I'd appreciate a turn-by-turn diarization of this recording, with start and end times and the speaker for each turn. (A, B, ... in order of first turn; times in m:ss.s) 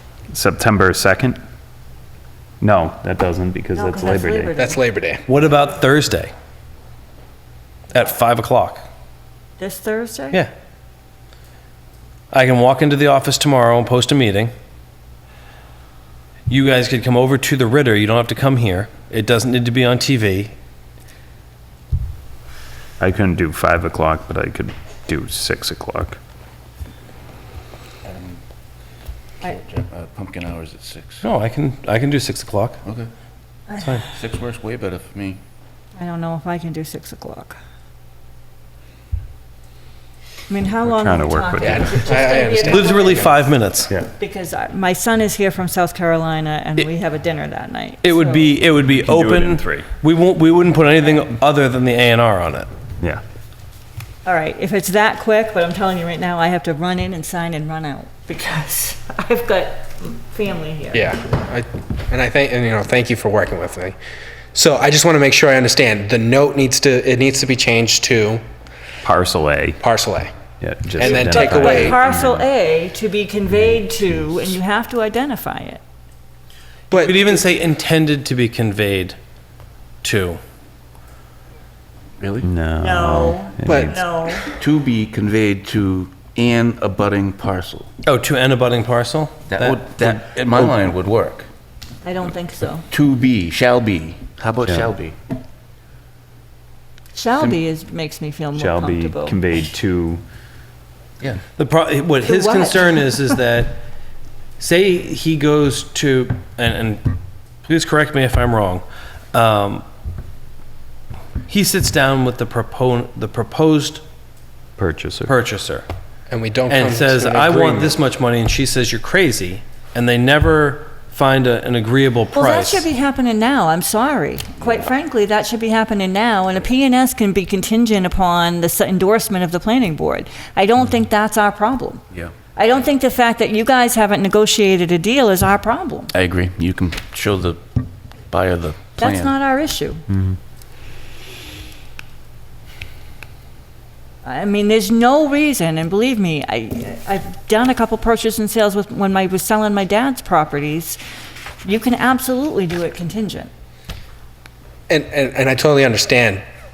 0:00.3-0:01.4 A
0:02.6-0:04.5 A
0:03.7-0:04.8 B
0:04.6-0:05.2 C
0:05.2-0:06.3 D
0:07.9-0:08.9 D
0:09.6-0:10.4 B
0:12.3-0:14.5 D
0:16.5-0:20.5 D
0:23.0-0:26.2 A
0:28.0-0:28.4 E
0:29.4-0:31.2 E
0:31.2-0:32.8 D
0:33.8-0:34.0 D
0:34.1-0:35.4 E
0:36.0-0:37.6 B
0:40.5-0:43.6 B
0:40.8-0:42.0 A
0:41.6-0:43.3 C
0:42.6-0:43.9 D
0:44.1-0:48.6 B
0:48.0-0:52.7 D
0:48.9-0:49.6 A
0:54.2-1:01.2 B
1:00.9-1:04.0 C
1:04.5-1:08.4 C
1:09.0-1:09.8 A
1:09.8-1:10.3 C
1:10.6-1:12.4 A
1:11.0-1:12.0 C
1:11.0-1:15.8 B
1:16.9-1:17.4 C
1:16.9-1:19.2 D
1:20.0-1:20.4 D
1:22.2-1:22.5 E
1:22.4-1:24.0 A
1:22.8-1:24.5 B
1:23.6-1:24.5 C
1:24.6-1:27.9 E
1:28.0-1:30.1 D
1:29.5-1:31.5 E
1:32.0-1:32.8 B
1:32.9-1:35.2 E
1:37.1-1:39.7 B
1:38.5-1:40.2 A
1:41.6-1:43.8 D
1:42.3-1:43.3 B
1:44.6-1:47.1 D
1:47.6-1:49.8 D
1:51.5-1:54.0 D
1:54.8-1:55.3 A
1:55.2-1:55.8 D
1:56.3-1:58.0 C
1:56.7-2:02.9 D
2:02.3-2:12.0 B
2:04.6-2:04.9 E
2:12.5-2:16.1 B
2:16.1-2:17.6 E
2:18.3-2:19.3 E
2:19.0-2:20.1 B
2:20.1-2:20.4 A
2:24.2-2:31.0 B
2:31.6-2:33.5 B
2:34.9-2:36.4 C